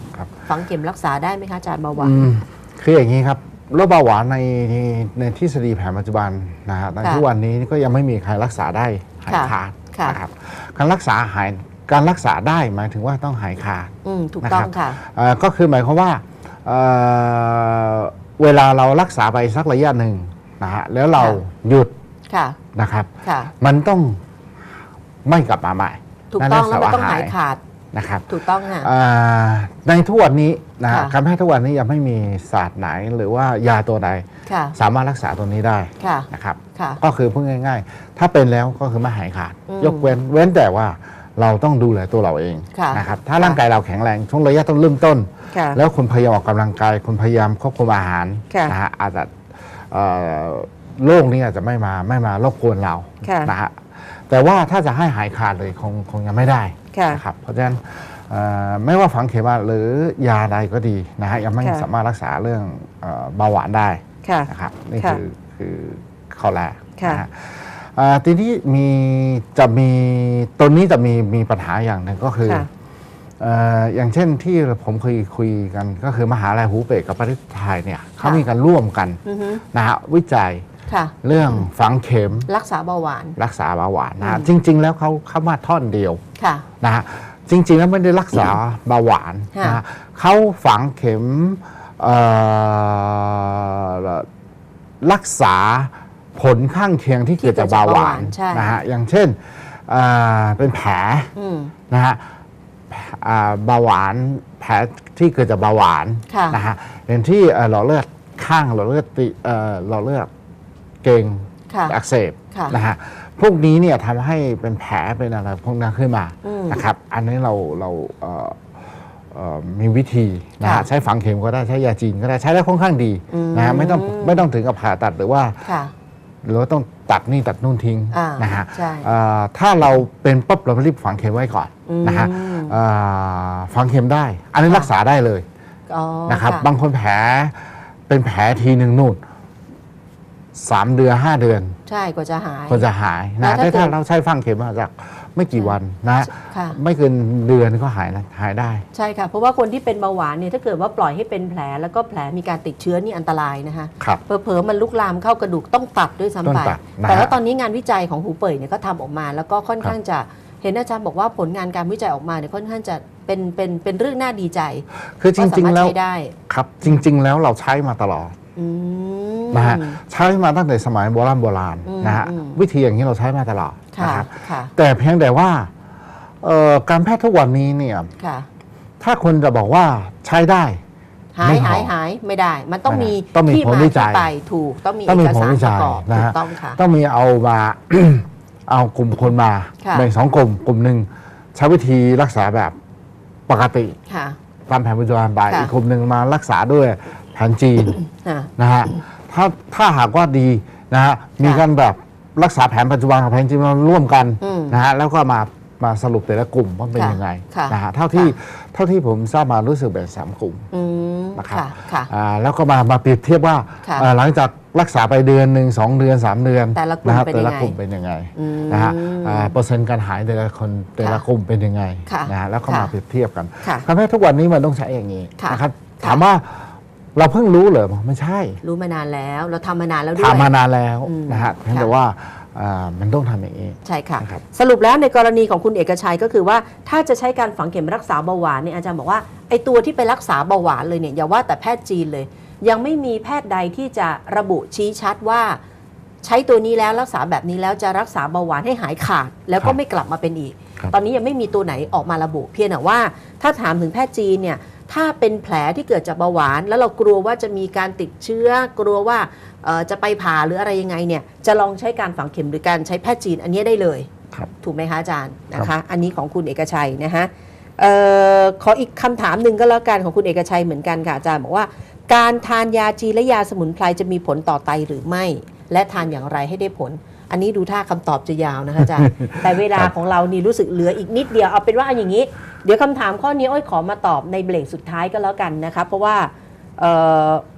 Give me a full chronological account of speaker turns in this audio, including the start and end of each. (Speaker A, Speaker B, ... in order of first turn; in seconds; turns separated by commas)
Speaker A: 0.5-2.3, Speaker B: 2.0-21.9, Speaker A: 9.3-10.2, Speaker A: 14.0-15.0, Speaker A: 22.3-22.6, Speaker B: 22.8-24.2, Speaker A: 23.2-23.5, Speaker B: 25.2-27.4, Speaker A: 26.3-27.6, Speaker B: 27.9-72.7, Speaker A: 28.3-28.9, Speaker A: 30.9-31.1, Speaker A: 34.5-34.8, Speaker A: 36.0-37.0, Speaker A: 39.7-40.1, Speaker A: 42.7-43.6, Speaker A: 45.5-45.8, Speaker A: 48.5-48.8, Speaker A: 53.2-53.5, Speaker A: 56.9-57.2, Speaker A: 61.6-61.9, Speaker A: 64.2-65.2, Speaker A: 67.0-67.2, Speaker B: 73.4-79.2, Speaker A: 79.3-79.6, Speaker B: 79.7-80.6, Speaker A: 80.9-81.1, Speaker B: 81.2-82.5, Speaker A: 82.5-83.4, Speaker B: 83.4-86.2, Speaker A: 84.2-84.5, Speaker A: 86.4-86.7, Speaker B: 86.8-94.3, Speaker A: 89.5-89.8, Speaker B: 95.0-101.3, Speaker A: 97.4-98.8, Speaker A: 101.4-101.7, Speaker B: 101.9-102.2, Speaker B: 102.9-110.3, Speaker A: 106.3-106.6, Speaker B: 111.0-125.7, Speaker A: 111.7-112.0, Speaker A: 112.5-112.8, Speaker A: 116.4-116.8, Speaker A: 120.6-120.9, Speaker A: 123.3-124.5, Speaker A: 125.7-125.9, Speaker B: 126.4-135.5, Speaker A: 128.1-129.1, Speaker A: 131.9-132.8, Speaker A: 135.9-136.7, Speaker B: 136.3-139.2, Speaker B: 140.6-141.8, Speaker A: 141.9-142.8, Speaker B: 142.7-148.8, Speaker A: 143.4-143.9, Speaker A: 146.3-146.8, Speaker A: 148.9-164.8, Speaker B: 156.4-157.4, Speaker B: 165.1-166.0, Speaker A: 165.4-166.3, Speaker B: 166.5-168.3, Speaker A: 168.6-170.0, Speaker B: 169.5-175.7, Speaker A: 171.8-172.6, Speaker A: 173.9-174.7, Speaker B: 176.4-178.1, Speaker A: 178.2-178.5, Speaker B: 179.0-180.8, Speaker A: 181.3-186.8, Speaker B: 181.4-181.9, Speaker B: 182.9-184.3, Speaker B: 185.1-192.8, Speaker A: 189.8-190.1, Speaker B: 193.5-194.0, Speaker A: 194.1-194.4, Speaker B: 194.7-198.0, Speaker A: 198.1-198.5, Speaker B: 198.6-210.7, Speaker A: 204.4-204.8, Speaker A: 206.9-208.3, Speaker A: 210.7-212.1, Speaker B: 211.4-228.6, Speaker A: 216.8-217.8, Speaker A: 218.4-219.6, Speaker A: 222.1-222.9, Speaker A: 223.6-223.9, Speaker A: 225.4-226.2, Speaker A: 228.6-230.5, Speaker B: 230.2-234.4, Speaker A: 231.0-231.9, Speaker A: 233.8-245.6, Speaker A: 246.2-264.1, Speaker A: 264.6-287.4, Speaker B: 278.8-279.9